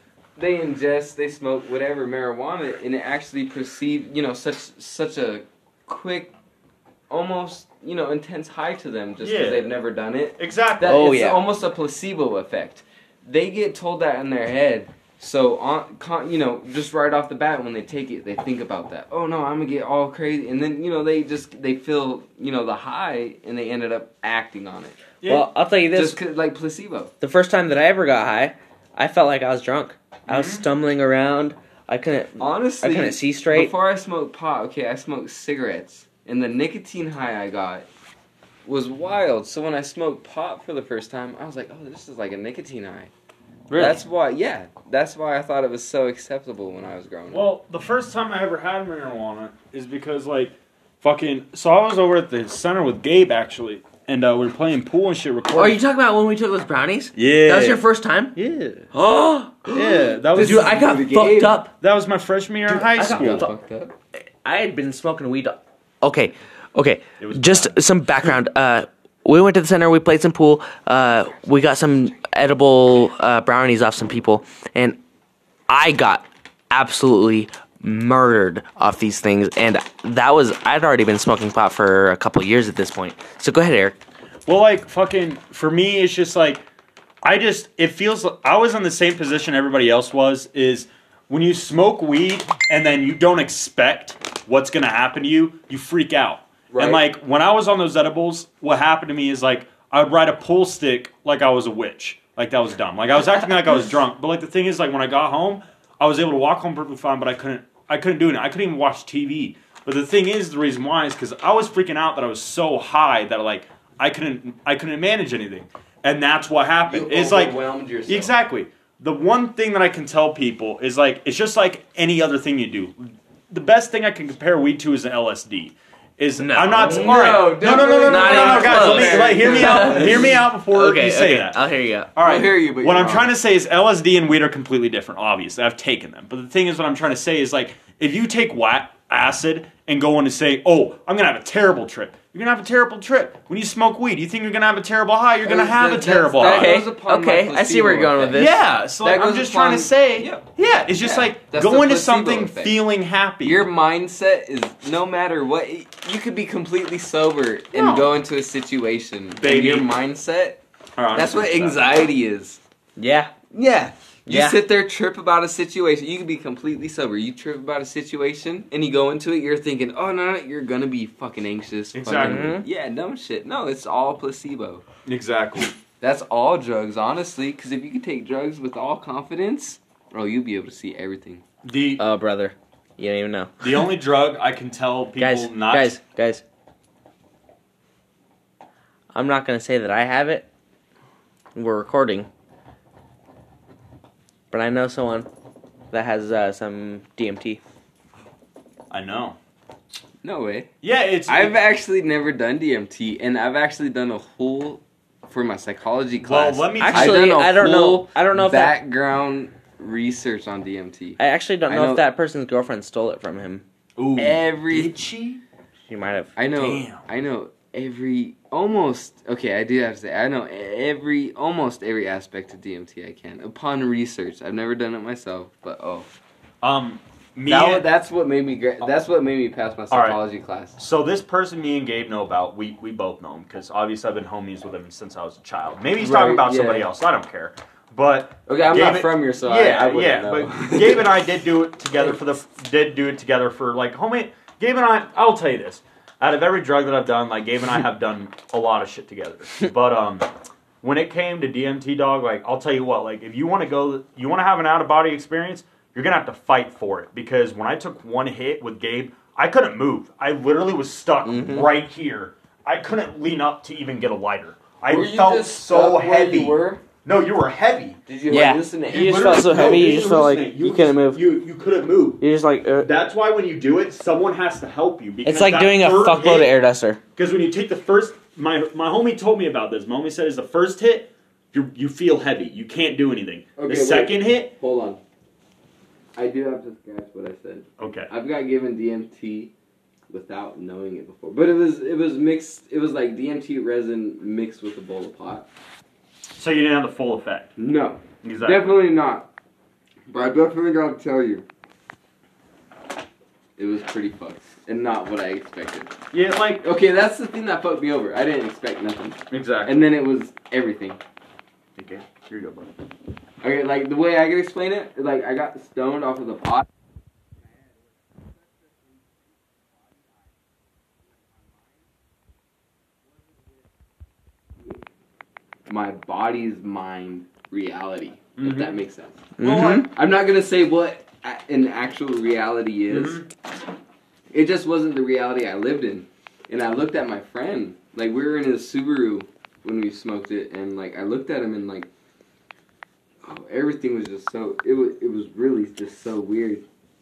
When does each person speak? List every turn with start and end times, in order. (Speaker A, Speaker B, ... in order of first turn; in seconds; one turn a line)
Speaker A: 0.4-6.3
Speaker A: 7.1-25.0
Speaker B: 9.2-9.7
Speaker B: 10.4-11.0
Speaker C: 10.8-11.4
Speaker B: 25.2-25.5
Speaker C: 25.2-26.2
Speaker A: 25.9-27.1
Speaker C: 27.2-33.7
Speaker B: 30.3-30.6
Speaker A: 32.4-37.9
Speaker A: 38.6-43.1
Speaker C: 43.7-44.0
Speaker A: 43.7-47.4
Speaker B: 47.3-55.8
Speaker C: 55.5-58.3
Speaker B: 57.1-57.8
Speaker B: 58.4-58.9
Speaker C: 58.9-61.7
Speaker B: 59.7-61.0
Speaker A: 60.3-61.6
Speaker B: 61.8-63.5
Speaker A: 62.7-63.9
Speaker C: 62.9-63.5
Speaker C: 64.4-75.0
Speaker B: 67.2-67.8
Speaker C: 75.7-84.0
Speaker B: 84.5-86.6
Speaker B: 87.2-131.6
Speaker A: 96.7-97.0
Speaker A: 116.9-118.3
Speaker C: 126.4-127.4
Speaker A: 126.8-130.4
Speaker C: 128.0-132.1
Speaker B: 132.2-146.9
Speaker A: 132.2-133.3
Speaker A: 145.4-148.4
Speaker C: 146.4-148.6
Speaker B: 148.3-153.7
Speaker A: 149.0-150.4
Speaker A: 151.0-152.8
Speaker A: 153.4-160.6
Speaker B: 157.7-158.1
Speaker B: 159.4-159.9
Speaker B: 161.0-162.0
Speaker A: 161.1-162.6
Speaker C: 163.0-163.3
Speaker A: 163.5-174.8
Speaker C: 164.2-164.6
Speaker B: 171.9-172.6
Speaker C: 172.2-172.7
Speaker B: 175.1-175.7
Speaker A: 176.0-181.4
Speaker B: 181.6-182.0
Speaker C: 182.0-183.7
Speaker B: 183.6-186.0
Speaker C: 185.2-186.4
Speaker C: 189.1-190.5
Speaker C: 191.5-192.3
Speaker C: 194.5-195.3
Speaker C: 195.9-197.6
Speaker B: 198.9-199.4
Speaker A: 200.2-200.7
Speaker B: 200.8-201.6
Speaker A: 201.3-212.0
Speaker B: 206.2-207.3
Speaker C: 206.8-208.7
Speaker C: 211.2-213.6
Speaker B: 214.0-215.4
Speaker A: 214.2-214.9
Speaker C: 215.9-216.4
Speaker A: 216.4-226.1
Speaker B: 216.5-217.1
Speaker B: 226.6-227.9
Speaker A: 227.5-230.8
Speaker B: 229.9-230.2
Speaker B: 230.8-250.3
Speaker A: 236.0-236.9
Speaker A: 238.5-241.1
Speaker B: 250.8-268.0
Speaker A: 261.3-261.6
Speaker A: 264.9-266.8
Speaker A: 268.1-269.9
Speaker C: 268.3-271.2
Speaker B: 268.9-272.2
Speaker C: 272.2-272.9
Speaker B: 272.8-276.5
Speaker C: 275.2-277.0
Speaker B: 277.1-284.5
Speaker A: 283.6-285.0
Speaker A: 286.1-289.5
Speaker B: 287.8-288.1
Speaker A: 290.1-295.5
Speaker B: 296.4-297.6
Speaker A: 297.6-299.3
Speaker B: 298.2-298.8
Speaker A: 300.1-301.4
Speaker A: 303.6-305.9
Speaker B: 306.1-306.6
Speaker A: 306.6-311.0
Speaker B: 309.3-309.9
Speaker B: 311.8-312.7
Speaker A: 313.4-316.7
Speaker A: 325.7-333.2
Speaker B: 328.4-328.8
Speaker C: 329.4-329.9
Speaker B: 332.9-333.3
Speaker A: 334.3-341.9
Speaker A: 343.2-346.6